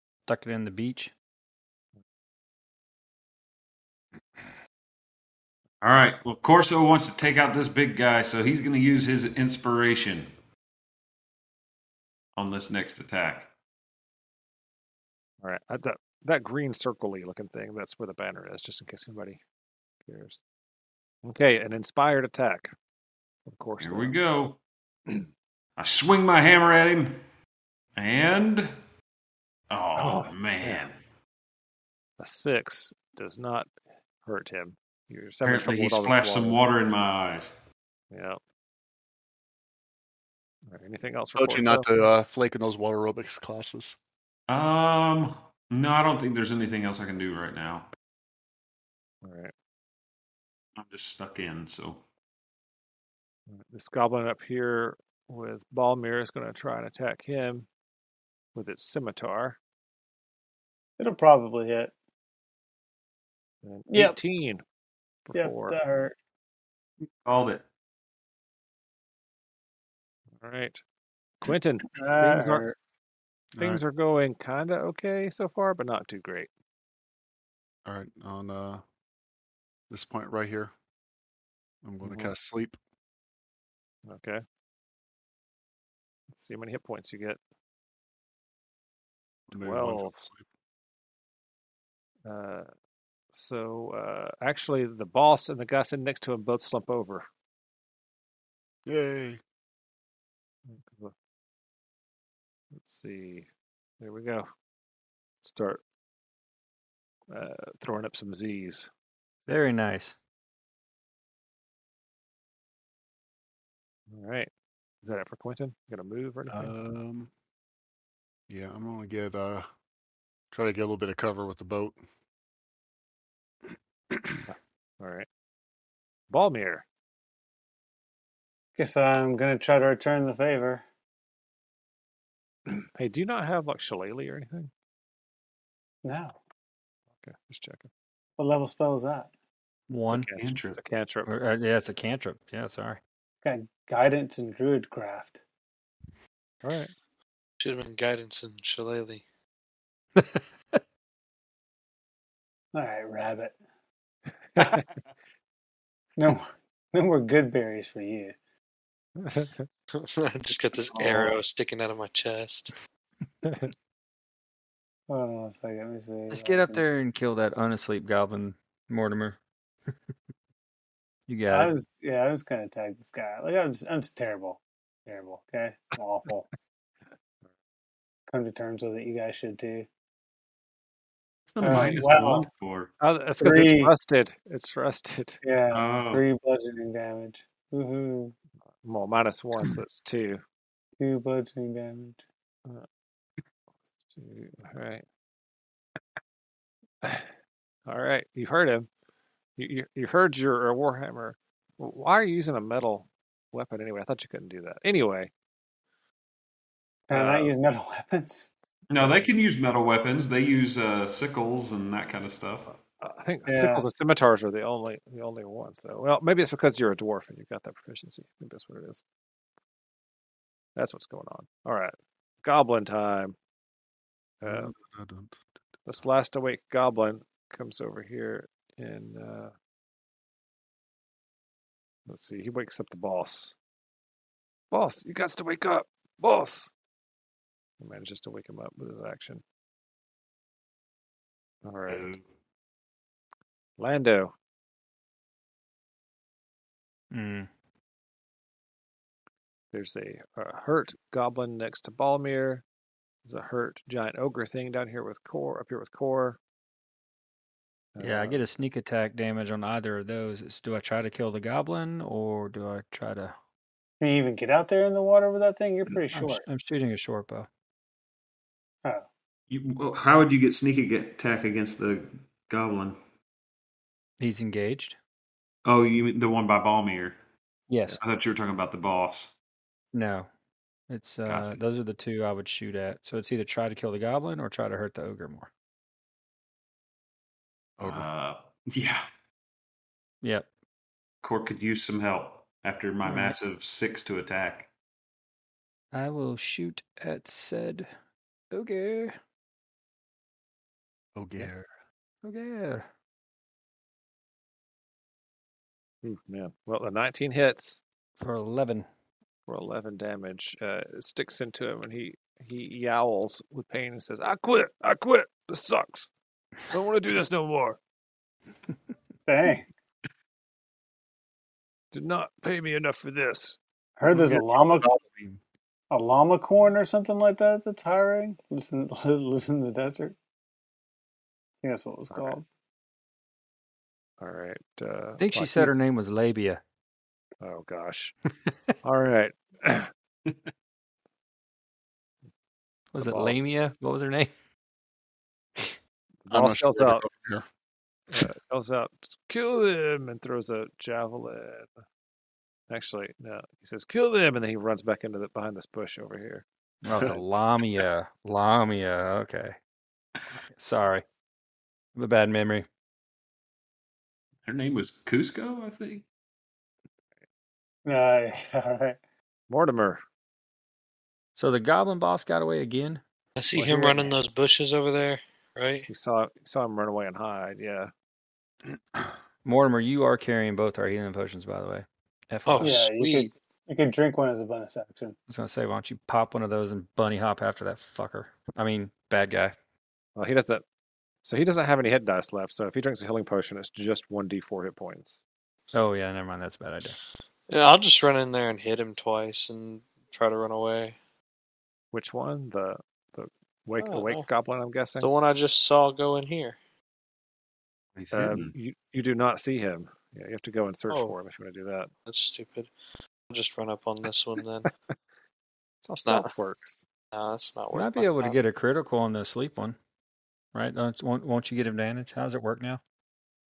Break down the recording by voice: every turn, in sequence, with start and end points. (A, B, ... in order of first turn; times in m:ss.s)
0:00.3-0:01.1 A
0:05.8-0:10.3 B
0:12.4-0:13.5 B
0:15.4-0:19.4 C
0:20.0-0:20.4 C
0:21.2-0:22.7 C
0:23.4-0:24.1 C
0:23.8-0:24.6 B
0:25.8-0:27.2 B
0:28.0-0:28.7 B
0:29.7-0:31.0 B
0:30.0-0:30.8 C
0:32.2-0:33.7 C
0:34.2-0:36.6 C
0:35.4-0:37.5 B
0:38.1-0:38.4 C
0:40.6-0:41.9 C
0:41.4-0:44.0 D
0:44.5-0:47.9 B
0:49.2-0:49.5 C
0:50.8-0:52.0 B
0:53.5-0:57.7 C
0:58.5-0:59.6 C
1:01.0-1:01.9 E
1:03.6-1:04.6 C
1:03.9-1:04.2 E
1:05.2-1:05.8 C
1:05.4-1:06.1 E
1:07.2-1:07.6 B
1:10.4-1:10.8 C
1:11.4-1:12.6 C
1:11.9-1:12.7 E
1:13.6-1:13.8 D
1:13.6-1:16.5 C
1:17.8-1:18.8 D
1:19.9-1:20.7 D
1:21.8-1:22.8 D
1:22.0-1:22.3 C
1:24.0-1:24.4 C
1:26.3-1:27.4 C
1:29.5-1:30.4 D
1:29.5-1:30.2 C
1:32.2-1:32.7 C
1:33.3-1:37.2 C
1:38.8-1:39.4 D
1:40.7-1:41.1 C
1:42.7-1:43.5 C
1:44.0-1:44.5 C
1:45.4-1:45.8 C
1:47.3-1:48.9 C
1:49.5-1:50.2 A
1:54.1-1:54.5 C
1:55.0-1:56.7 C
1:56.5-1:57.3 D
1:58.5-1:59.7 D
2:00.5-2:02.0 D
2:04.1-2:04.4 D
2:04.5-2:05.3 C
2:06.3-2:06.8 C
2:08.8-2:10.8 E
2:12.7-2:14.7 C
2:16.0-2:16.4 E
2:17.2-2:17.9 C
2:18.4-2:19.3 E
2:19.9-2:20.3 A
2:20.1-2:21.3 C
2:20.4-2:20.8 B
2:21.2-2:23.0 A
2:23.4-2:25.4 E
2:26.6-2:26.9 C
2:27.6-2:29.2 F
2:30.2-2:30.4 A
2:32.7-2:33.6 E
2:34.5-2:34.9 C
2:36.2-2:38.3 E
2:39.2-2:39.7 C
2:39.9-2:42.7 F
2:41.0-2:41.3 E
2:43.4-2:43.7 C
2:45.1-2:46.8 E
2:46.3-2:49.4 A
2:51.3-2:51.7 A
2:51.5-2:56.5 E
2:58.3-2:59.9 E
3:01.5-3:02.9 B
3:01.6-3:02.5 E
3:03.0-3:05.4 C
3:03.4-3:03.9 E
3:05.4-3:08.3 E
3:05.7-3:06.2 B
3:08.8-3:10.4 C
3:11.0-3:12.2 E
3:14.0-3:15.0 C
3:17.0-3:17.3 C
3:17.8-3:18.9 C
3:19.6-3:25.3 C
3:27.1-3:28.5 E
3:27.1-3:27.5 C
3:28.9-3:32.7 B
3:29.0-3:29.2 C
3:32.7-3:39.0 C
3:33.5-3:33.8 E
3:40.8-3:43.4 C
3:44.4-3:44.7 C
3:44.4-3:45.4 D
3:45.8-3:49.5 C
3:52.1-3:53.6 C
3:54.7-3:56.7 C
3:57.8-3:59.4 C
4:01.6-4:02.2 C
4:01.9-4:02.2 B
4:03.8-4:04.3 C
4:07.1-4:07.5 A
4:09.7-4:12.6 C
4:13.2-4:16.4 C
4:17.9-4:18.4 C
4:18.0-4:23.3 A
4:24.0-4:26.4 E
4:26.1-4:27.5 A
4:29.5-4:33.0 B
4:34.2-4:35.0 A
4:35.6-4:37.2 B
4:37.7-4:38.0 A
4:37.9-4:39.3 B
4:39.9-4:40.3 A
4:40.9-4:45.5 A
4:41.2-4:41.6 B
4:47.8-4:48.1 D
4:47.8-4:49.0 B
4:50.2-4:50.5 A
4:51.2-4:54.7 B
4:53.0-4:53.3 A
4:55.9-4:57.9 A
4:58.5-4:59.1 A
5:01.2-5:01.7 D
5:02.2-5:02.9 A
5:06.0-5:07.8 C
5:08.2-5:08.9 A
5:09.5-5:16.1 C
5:16.7-5:17.8 C
5:19.2-5:19.7 E
5:21.9-5:23.6 C
5:24.0-5:24.9 E
5:24.1-5:25.4 D
5:25.9-5:30.2 E
5:31.6-5:32.4 E
5:32.1-5:32.4 C
5:34.2-5:35.8 C
5:35.2-5:36.6 A
5:37.4-5:38.2 C
5:38.8-5:39.9 C
5:42.9-5:44.3 A
5:43.0-5:43.5 C
5:46.2-5:47.0 C
5:46.3-5:47.4 D
5:48.1-5:51.7 C
5:52.7-5:57.4 C
5:56.8-5:59.6 A
6:00.6-6:01.0 A
6:01.9-6:02.6 A
6:04.5-6:06.0 B
6:07.8-6:09.0 E
6:09.5-6:10.0 C
6:11.4-6:13.0 A
6:13.4-6:15.9 F
6:13.6-6:13.9 C
6:15.9-6:17.9 C
6:19.4-6:22.8 A
6:22.4-6:23.3 F
6:22.6-6:25.2 E
6:25.3-6:29.5 A
6:30.2-6:30.6 C
6:31.2-6:35.2 C
6:35.7-6:37.0 A
6:37.5-6:41.0 F
6:41.9-6:45.1 C
6:43.8-6:44.3 F
6:45.0-6:46.6 F
6:48.0-6:48.5 B
6:48.1-6:51.9 C
6:50.9-6:51.2 F
6:52.0-6:52.7 F
6:53.3-6:54.7 F
6:54.7-6:55.0 C
6:55.8-6:56.8 C
6:56.0-6:56.3 F
6:57.1-6:58.4 F
6:57.7-6:59.8 A
7:00.5-7:02.8 A